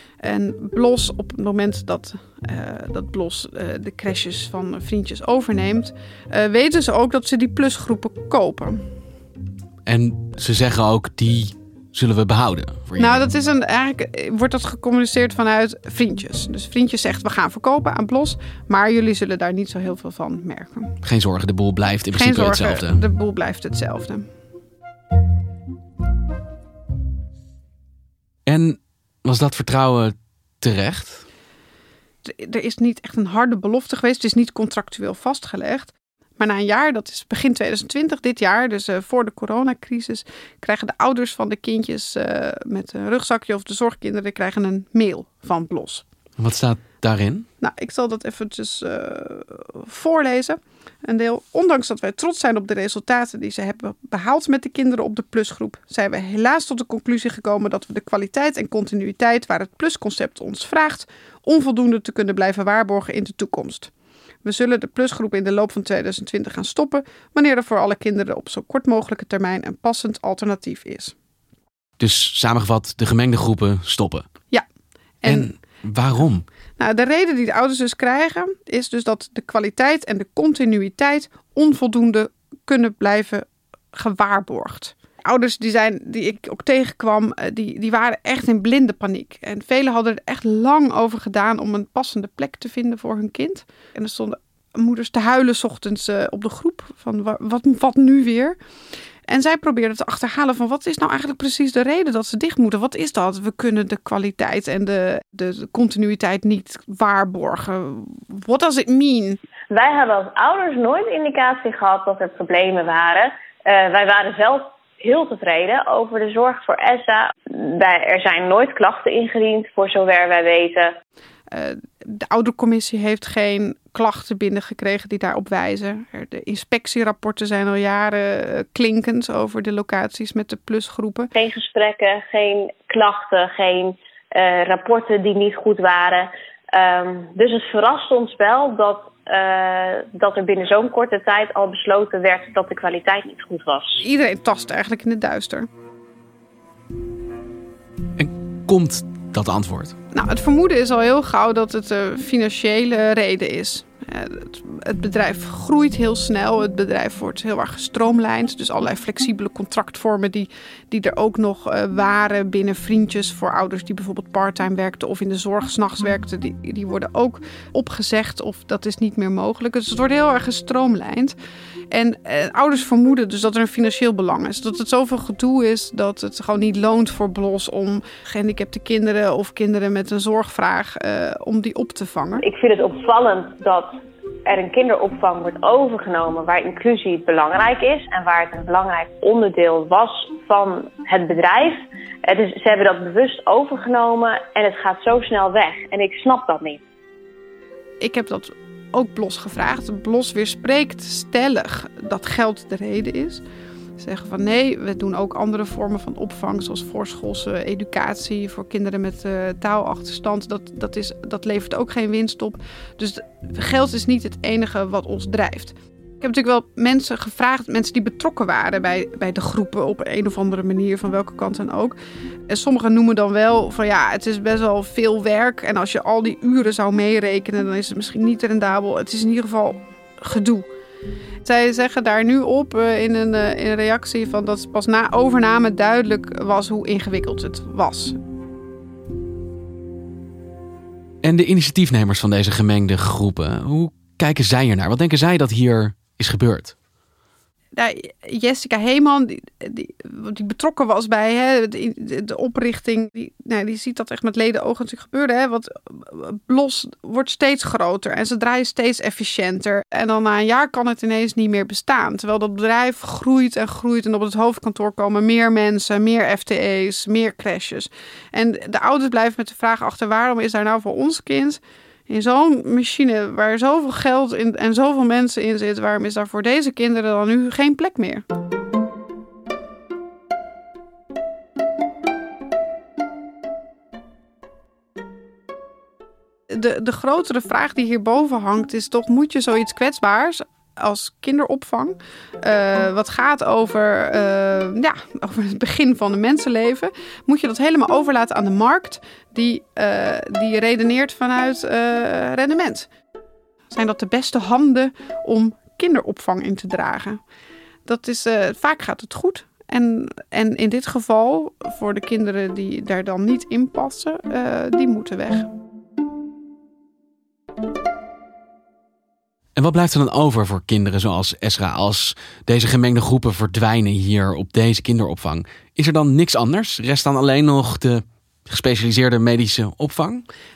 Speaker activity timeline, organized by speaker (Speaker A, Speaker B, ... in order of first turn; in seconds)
Speaker A: 0.2-8.8, 13.0-20.9, 22.1-24.3, 32.2-46.0, 47.6-63.9, 64.4-71.1, 75.2-75.5, 76.8-98.5, 99.3-109.4, 121.5-131.3, 144.0-145.7, 150.1-171.3, 171.9-182.4, 198.0-203.4, 204.0-221.9, 222.5-230.7, 231.4-238.2, 247.8-278.2, 286.5-302.9, 303.7-307.2, 307.8-315.5
Speaker B: 9.8-13.2, 21.0-23.0, 28.4-31.2, 46.4-47.5, 72.0-74.2, 75.3-76.4, 148.2-149.9, 241.2-246.7, 319.6-330.2
Speaker C: 109.7-120.9, 131.3-144.0, 182.4-183.9, 184.4-196.8